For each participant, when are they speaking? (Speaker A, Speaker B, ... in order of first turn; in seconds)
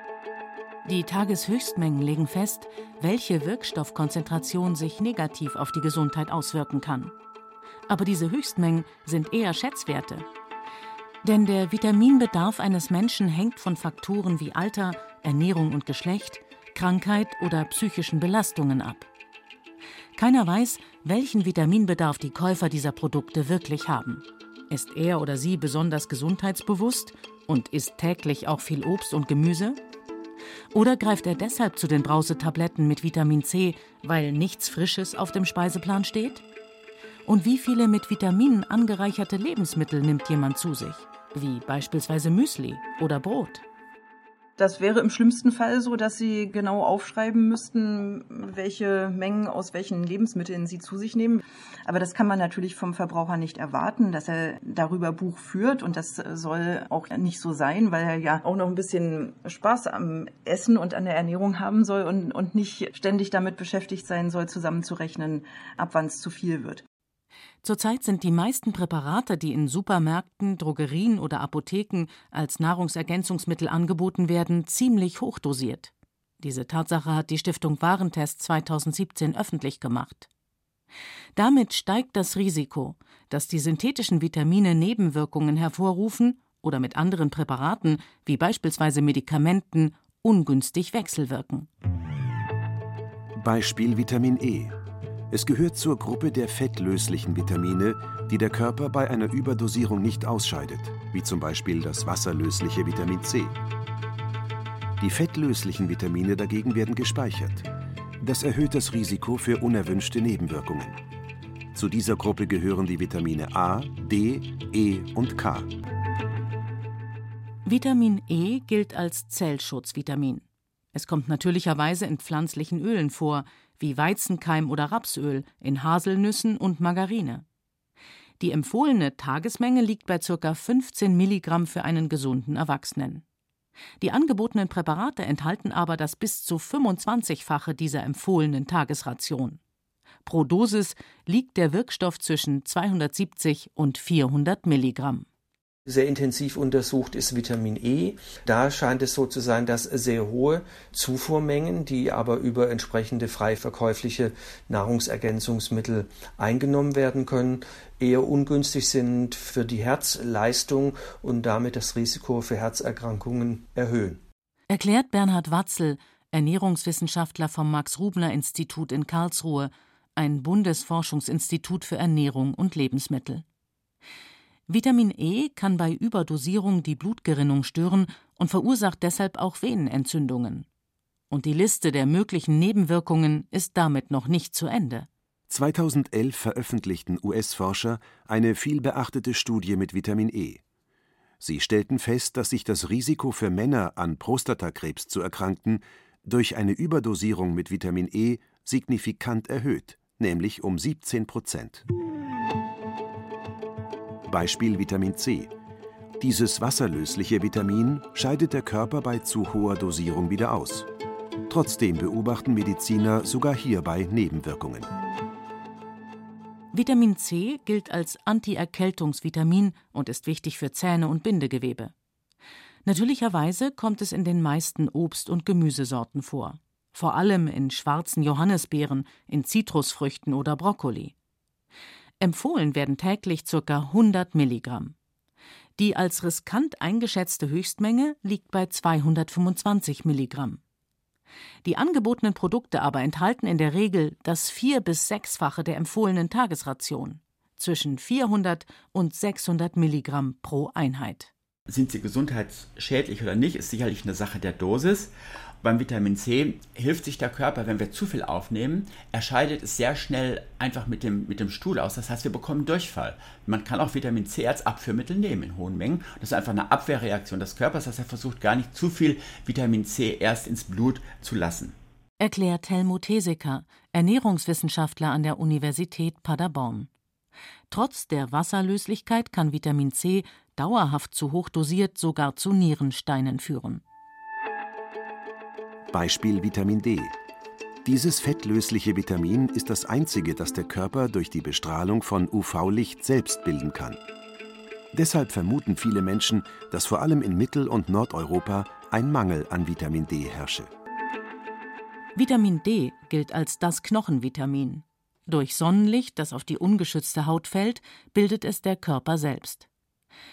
Speaker A: 0.8-7.1, 7.9-10.2, 11.2-19.1, 20.1-29.8, 30.7-36.4, 37.2-43.6, 67.6-80.3, 81.3-91.7, 117.6-127.4, 128.4-133.2, 134.0-139.6, 140.2-145.3, 164.7-173.4, 174.7-180.7, 181.3-185.1, 216.7-221.9, 222.8-231.1, 232.2-234.9, 235.8-240.6, 241.6-251.3, 272.2-276.9, 277.7-283.8, 302.1-309.7
Speaker B: 44.6-66.8
Speaker C: 93.3-94.8, 95.3-103.6, 105.0-107.7, 108.2-111.0, 111.7-115.7, 185.5-190.6, 191.4-201.8, 204.2-205.5, 206.2-210.9, 211.5-214.9, 285.9-287.1, 287.8-294.0, 294.9-300.7
Speaker D: 145.8-164.2
Speaker E: 251.7-271.8